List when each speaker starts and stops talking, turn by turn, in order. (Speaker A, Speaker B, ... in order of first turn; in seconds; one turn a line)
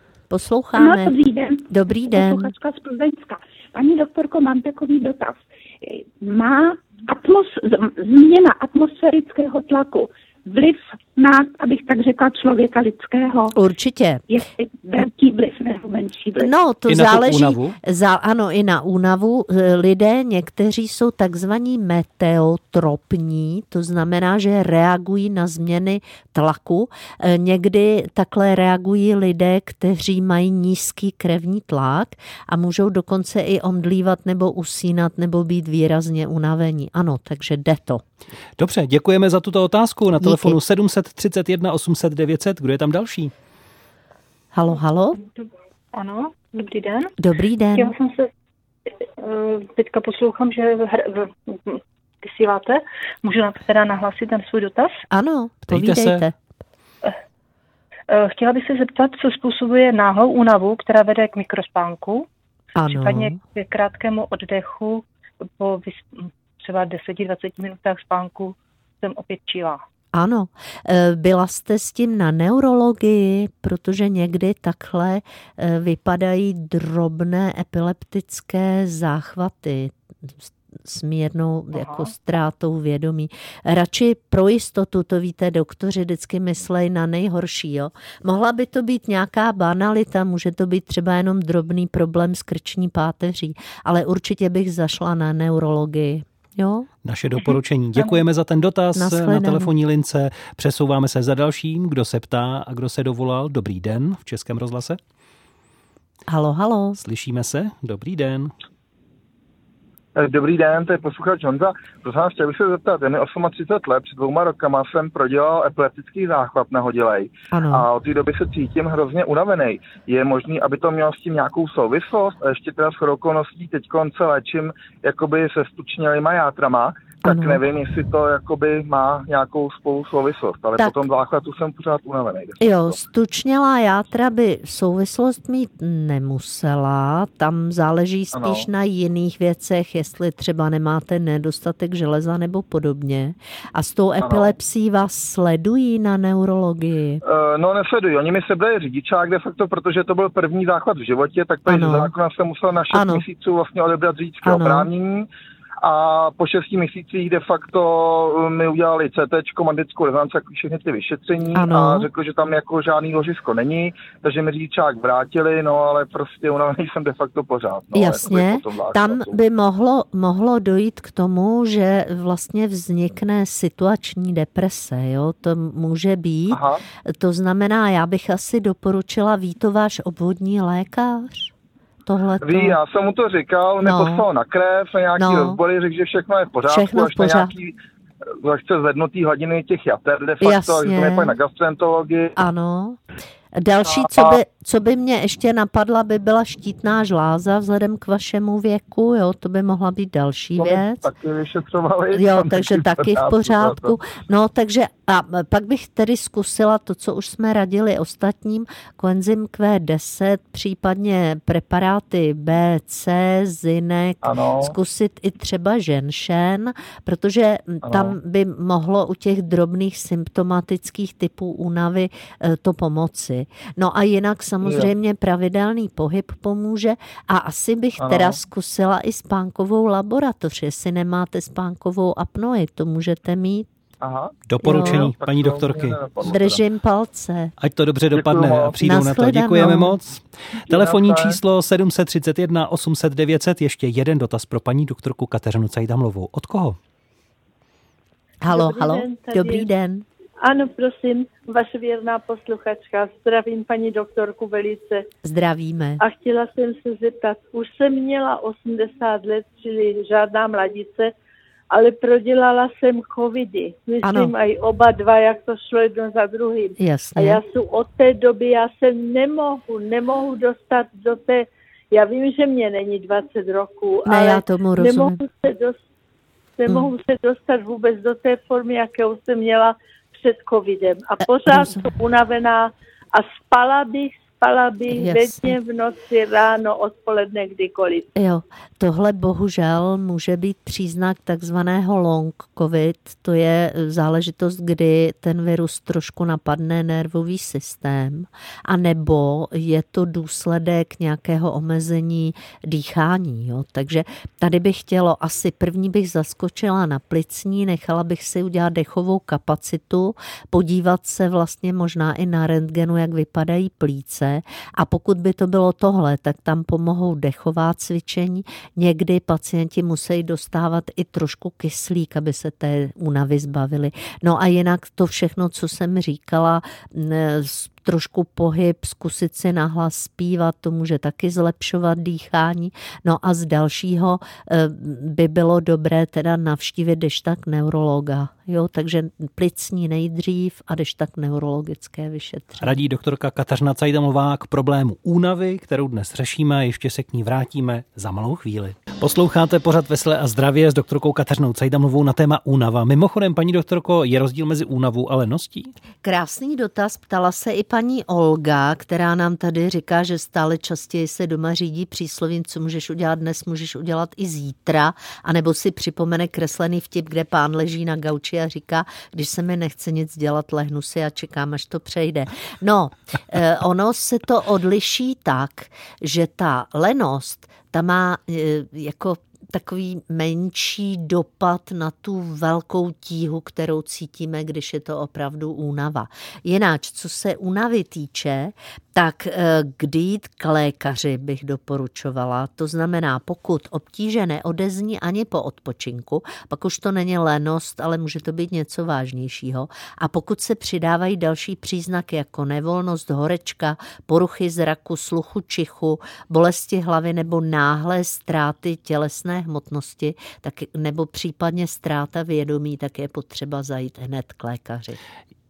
Speaker A: 0.3-1.1
Speaker B: 0.7-13.5
Speaker A: 1.7-2.5
Speaker A: 13.5-14.2
Speaker B: 14.3-16.5
Speaker A: 16.4-38.0
Speaker C: 16.9-17.8
Speaker C: 38.6-43.3
Speaker A: 40.2-40.6
Speaker A: 44.5-45.2
Speaker D: 45.4-47.1
Speaker A: 47.2-47.9
Speaker D: 47.8-48.3
Speaker D: 49.2-55.0
Speaker A: 55.1-56.3
Speaker C: 55.7-56.3
Speaker D: 58.1-62.2
Speaker A: 62.8-63.4
Speaker D: 62.9-65.0
Speaker D: 65.6-69.8
Speaker A: 70.1-96.9
Speaker C: 97.0-105.0
Speaker A: 99.0-99.7
Speaker A: 106.3-107.0
Speaker C: 107.0-108.5
Speaker E: 110.1-132.9
Speaker A: 117.5-117.9
Speaker A: 127.2-127.6
Speaker A: 130.8-131.0
Speaker A: 132.6-147.2
Speaker E: 138.3-138.6
Speaker E: 144.2-144.5
Speaker E: 147.2-155.2
Speaker A: 151.7-152.1
Speaker A: 152.9-153.2
Speaker A: 154.4-154.9
Speaker E: 155.8-169.3
Speaker A: 161.5-162.1
Speaker A: 167.9-181.5
Speaker E: 176.5-176.8
Speaker A: 182.1-182.8
Speaker E: 182.4-187.8
Speaker A: 183.8-184.2
Speaker A: 185.2-185.6
Speaker A: 186.7-187.5
Speaker E: 188.4-192.3
Speaker A: 190.4-191.4
Speaker A: 192.4-193.0
Speaker A: 193.5-201.1
Speaker E: 194.0-194.3
Speaker E: 200.6-204.0
Speaker A: 202.1-233.7
Speaker E: 214.2-214.7
Speaker E: 217.9-218.1
Speaker E: 228.0-228.4
Speaker E: 234.0-236.6
Speaker C: 234.4-236.1
Speaker A: 234.6-235.1
Speaker A: 236.2-237.5
Speaker C: 237.6-246.8
Speaker E: 238.1-238.8
Speaker A: 238.8-239.9
Speaker E: 240.7-241.4
Speaker A: 248.4-250.1
Speaker F: 248.5-249.7
Speaker F: 250.4-255.1
Speaker A: 255.2-256.0
Speaker F: 256.0-261.1
Speaker F: 261.7-275.8
Speaker A: 264.0-264.3
Speaker A: 266.8-267.4
Speaker A: 274.1-275.2
Speaker F: 276.6-288.1
Speaker A: 281.4-281.8
Speaker A: 284.9-285.5
Speaker A: 288.1-342.8
Speaker C: 342.6-355.7
Speaker A: 356.0-415.0